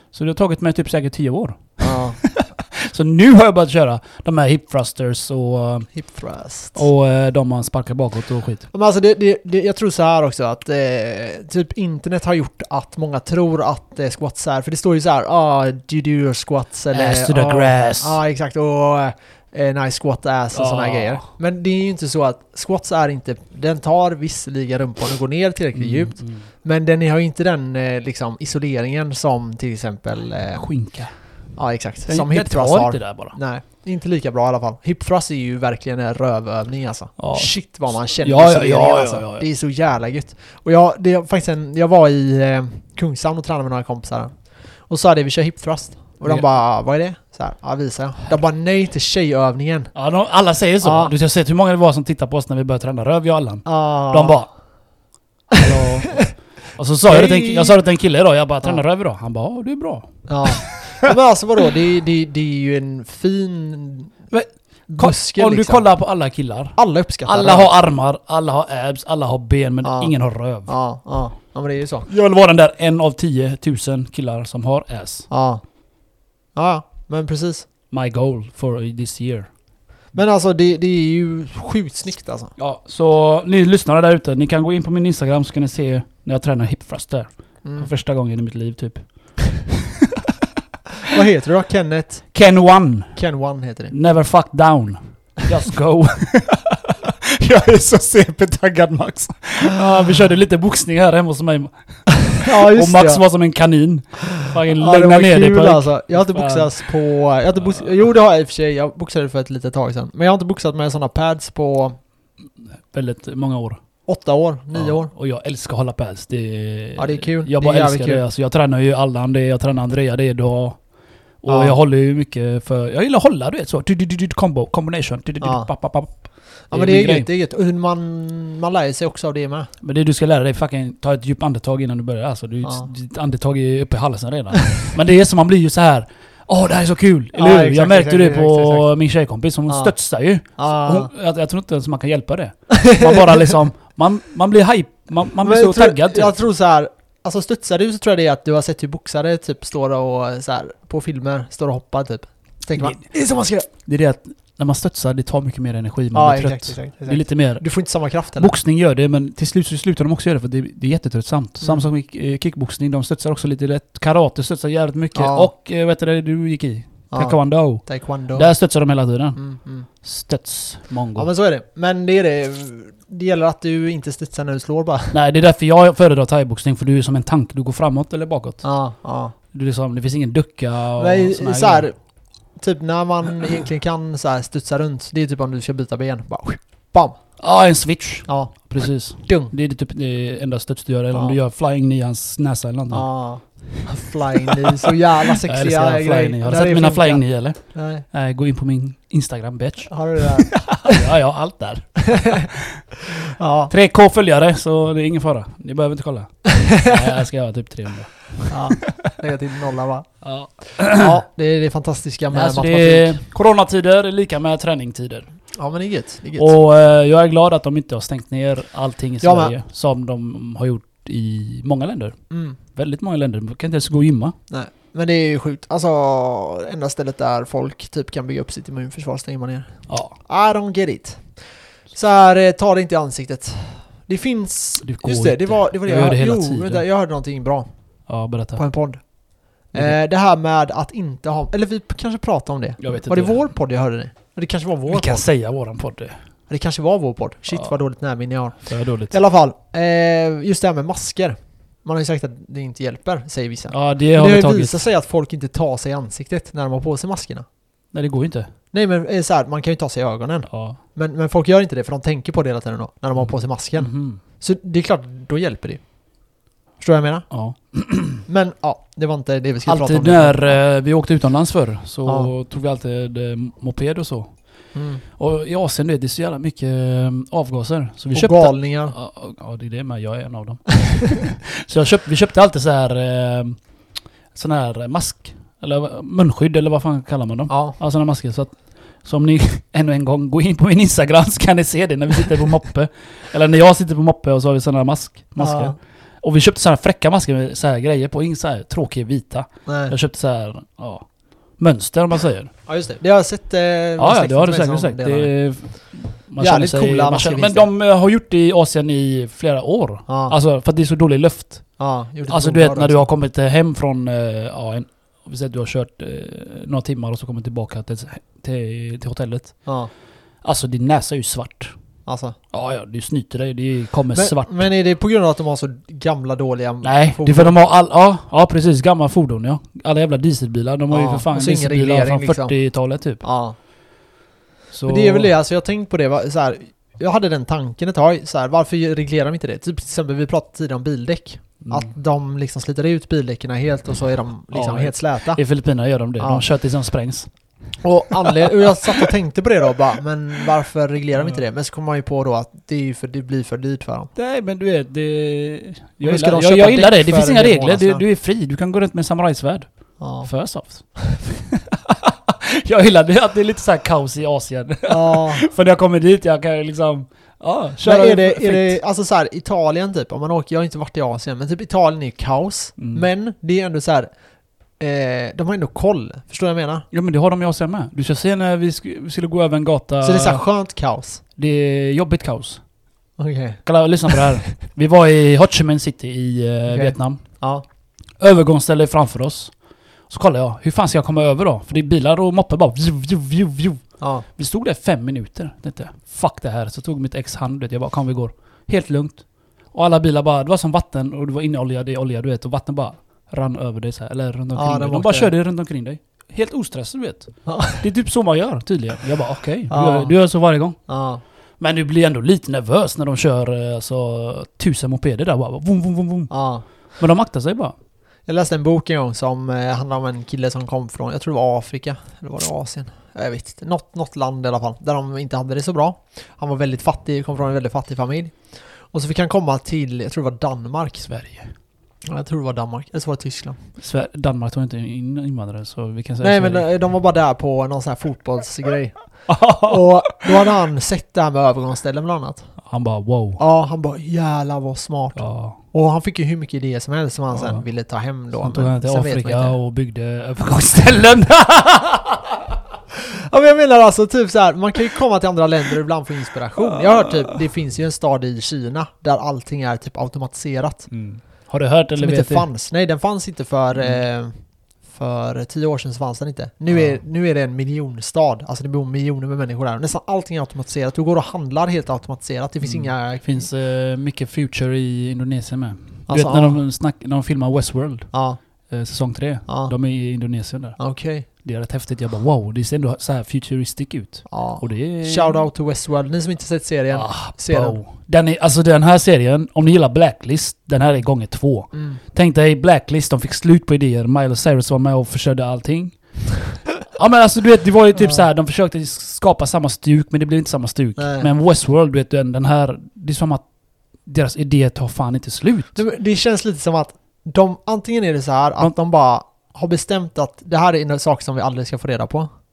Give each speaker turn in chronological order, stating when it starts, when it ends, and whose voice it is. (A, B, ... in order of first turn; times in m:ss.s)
0:00.1-0:05.9 A
0:01.8-0:02.2 B
0:05.9-0:06.8 B
0:06.8-0:08.7 A
0:08.7-0:30.7 B
0:16.9-0:18.2 A
0:20.5-0:21.2 A
0:25.8-0:26.5 A
0:30.5-0:31.1 A
0:31.6-0:44.3 B
0:32.1-0:33.4 A
0:37.2-0:39.5 A
0:44.8-0:49.9 B
0:50.0-0:54.5 A
0:50.8-0:51.1 B
0:53.6-0:54.4 B
0:55.6-1:00.8 A
0:57.1-0:57.8 B
1:00.3-1:04.2 B
1:04.3-1:10.7 A
1:04.9-1:05.9 B
1:06.8-1:07.7 B
1:09.8-1:10.1 B
1:10.7-1:12.1 B
1:12.1-1:15.3 A
1:15.3-1:15.6 B
1:16.6-1:17.7 B
1:17.9-1:19.5 A
1:20.1-1:22.5 B
1:22.6-1:30.1 A
1:27.6-1:27.9 B
1:31.0-1:32.3 B
1:32.3-1:33.2 A
1:33.2-1:33.9 B
1:33.9-1:46.8 A
1:42.4-1:43.2 B
1:44.4-1:52.0 B
1:47.6-1:47.9 A
1:52.6-1:53.8 A
1:54.1-1:55.1 B
1:54.7-2:00.8 A
1:57.0-1:58.2 B
2:01.4-2:07.3 A
2:01.5-2:01.8 B
2:05.4-2:05.7 B
2:06.7-2:09.7 B
2:09.8-2:26.4 A
2:17.4-2:18.9 B
2:20.6-2:21.1 B
2:22.7-2:23.4 B
2:25.4-2:33.7 B
2:32.8-2:33.0 A
2:33.8-2:37.6 A
2:36.1-2:38.5 B
2:38.4-2:49.4 A
2:41.6-2:41.9 B
2:45.1-2:45.5 B
2:47.1-2:48.5 B
2:49.4-2:49.9 B
2:50.0-2:51.3 A
2:51.2-2:55.2 B
2:55.1-2:58.6 A
2:58.6-2:59.3 B
2:59.5-3:01.9 A
3:01.0-3:02.0 B
3:02.6-3:07.2 B
3:07.4-3:13.1 A
3:08.3-3:08.6 B
3:09.2-3:09.5 B
3:12.9-3:18.0 B
3:14.5-3:22.8 A
3:19.9-3:21.0 B
3:22.1-3:22.5 B
3:23.3-3:23.7 B
3:23.7-3:28.8 A
3:26.7-3:27.0 B
3:28.5-3:33.2 B
3:30.2-3:31.2 A
3:32.3-3:35.3 A
3:35.5-3:36.6 B
3:36.4-3:44.4 A
3:39.2-3:39.5 B
3:42.3-3:42.6 B
3:44.5-3:57.7 B
3:49.9-3:50.2 A
3:54.8-3:56.8 A
3:58.1-3:58.6 A
3:58.6-3:59.0 B
3:59.6-4:05.2 B
4:02.8-4:03.5 A
4:04.9-4:06.2 A
4:06.5-4:17.5 B
4:08.6-4:09.2 A
4:13.7-4:14.8 A
4:17.9-4:18.5 A
4:18.7-4:25.8 B
4:20.5-4:20.8 A
4:23.2-4:24.2 A
4:26.8-4:27.3 B
4:27.3-4:28.2 A
4:28.3-4:30.6 B
4:29.6-4:34.5 A
4:32.1-4:32.3 B
4:34.7-4:35.0 B
4:35.2-4:43.6 A
4:38.1-4:39.0 B
4:44.3-5:02.5 A
4:47.5-4:47.8 B
4:55.4-4:55.8 B
4:59.7-4:59.9 B
5:02.7-5:05.3 B
5:04.0-5:19.6 A
5:06.4-5:07.7 B
5:10.1-5:10.4 B
5:11.8-5:13.0 B
5:20.4-5:21.8 A
5:22.1-5:22.4 B
5:22.5-5:24.7 A
5:24.1-5:27.6 B
5:26.8-5:33.2 A
5:30.9-5:32.6 B
5:33.2-5:33.6 B
5:34.7-5:35.3 A
5:34.9-5:45.4 B
5:41.6-5:41.9 A
5:44.5-5:47.3 A
5:46.2-5:46.4 B
5:47.8-5:54.1 B
5:48.1-5:49.1 A
5:51.2-5:51.4 A
5:54.2-6:08.8 A
5:56.0-5:58.0 B
6:00.0-6:00.3 B
6:04.9-6:05.4 B
6:07.8-6:14.1 B
6:12.8-6:13.0 A
6:14.8-6:16.8 B
6:16.9-6:20.4 A
6:20.0-6:21.2 B
6:21.4-6:22.6 A
6:23.2-6:24.3 B
6:23.6-6:27.2 A
6:26.7-6:27.6 B
6:28.2-6:29.5 A
6:30.1-6:33.8 A
6:34.0-6:34.3 B
6:34.4-6:50.8 A
6:44.6-6:45.3 B
6:47.5-6:47.8 B
6:49.7-6:50.1 B
6:50.9-6:51.2 B
6:51.6-6:56.3 A
6:56.3-6:56.6 B
6:57.0-6:57.8 A
6:58.3-7:11.1 B
7:11.0-7:11.6 A
7:12.1-7:13.6 B
7:13.8-7:16.7 A
7:16.2-7:22.5 B
7:19.3-7:20.3 A
7:22.6-7:23.4 A
7:23.4-7:29.6 B
7:25.2-7:25.6 A
7:27.3-7:27.6 A
7:28.4-7:32.4 A
7:33.0-7:40.9 B
7:40.9-7:42.5 A
7:42.0-7:44.4 B
7:43.8-7:44.0 A
7:44.9-7:53.2 B
7:46.7-7:47.0 A
7:52.6-7:58.1 A
7:56.1-7:56.6 B
7:58.1-7:58.4 B
7:58.7-8:00.8 A
7:59.5-7:59.7 B
8:00.8-8:01.3 B
8:01.3-8:05.5 A
8:04.3-8:07.8 B
8:06.9-8:16.0 A
8:11.7-8:12.0 B
8:16.9-8:23.4 A
8:21.0-8:21.3 B
8:24.0-8:25.8 A
8:25.8-8:32.3 B